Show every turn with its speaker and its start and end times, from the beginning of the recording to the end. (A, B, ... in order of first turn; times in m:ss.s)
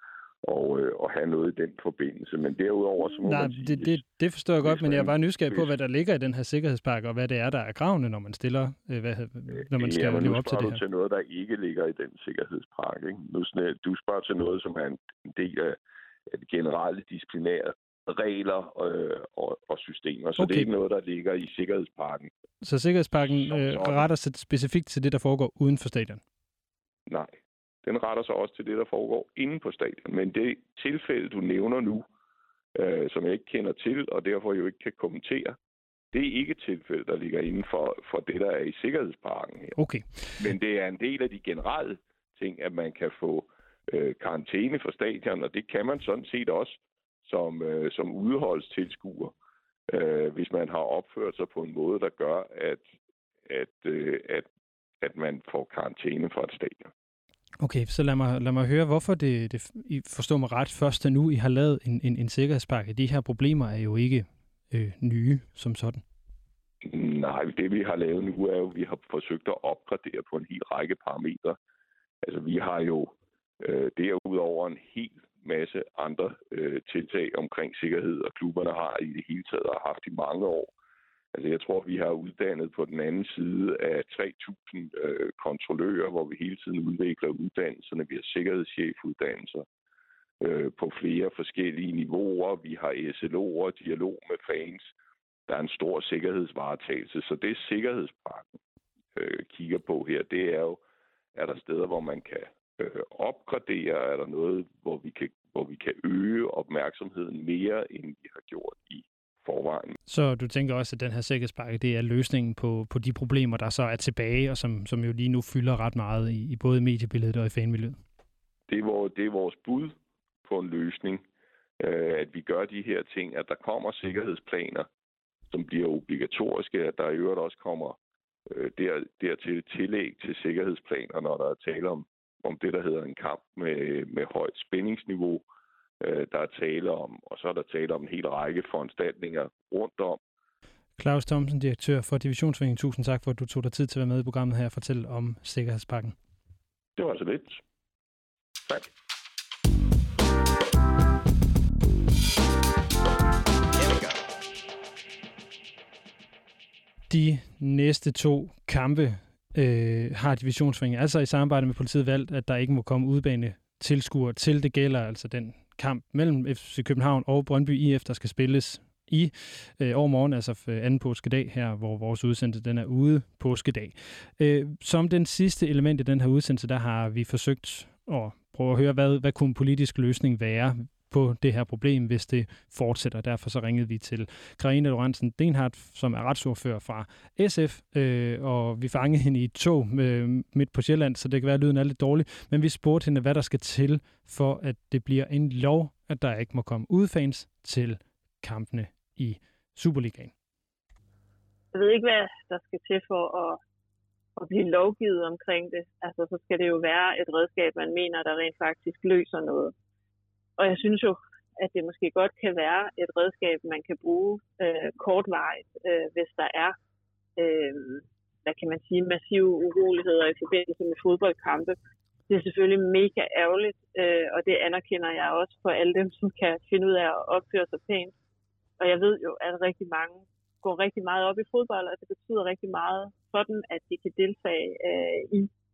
0:00.4-0:04.0 A
0:03.2-0:10.8 B
0:04.6-0:05.7 A
0:09.5-0:22.3 A
0:20.4-0:20.7 B
0:22.6-0:26.2 B
0:23.6-0:24.0 A
0:27.1-0:27.3 A
0:27.8-0:32.0 A
0:32.8-0:35.6 A
0:36.1-0:39.8 A
0:39.8-0:40.5 B
0:40.4-0:49.3 A
0:49.9-0:52.8 A
0:53.5-0:54.5 A
0:55.0-0:56.9 A
0:57.6-1:06.0 B
1:06.8-1:11.6 A
1:12.2-1:20.7 A
1:21.3-1:29.7 A
1:30.4-1:34.9 A
1:35.5-1:38.5 A
1:39.1-1:40.8 A
1:41.4-1:50.0 A
1:50.1-1:58.0 B
1:58.7-2:01.2 A
2:01.8-2:04.9 A
2:05.5-2:08.0 A
2:08.5-2:15.4 A
2:16.0-2:20.2 A
2:21.0-2:26.2 B
2:27.0-2:27.6 A
2:37.1-3:20.3 B
3:21.7-3:23.6 C
3:24.4-3:29.7 C
3:30.6-3:36.8 C
3:37.4-3:41.8 C
3:42.3-3:48.1 C
3:48.8-3:55.5 C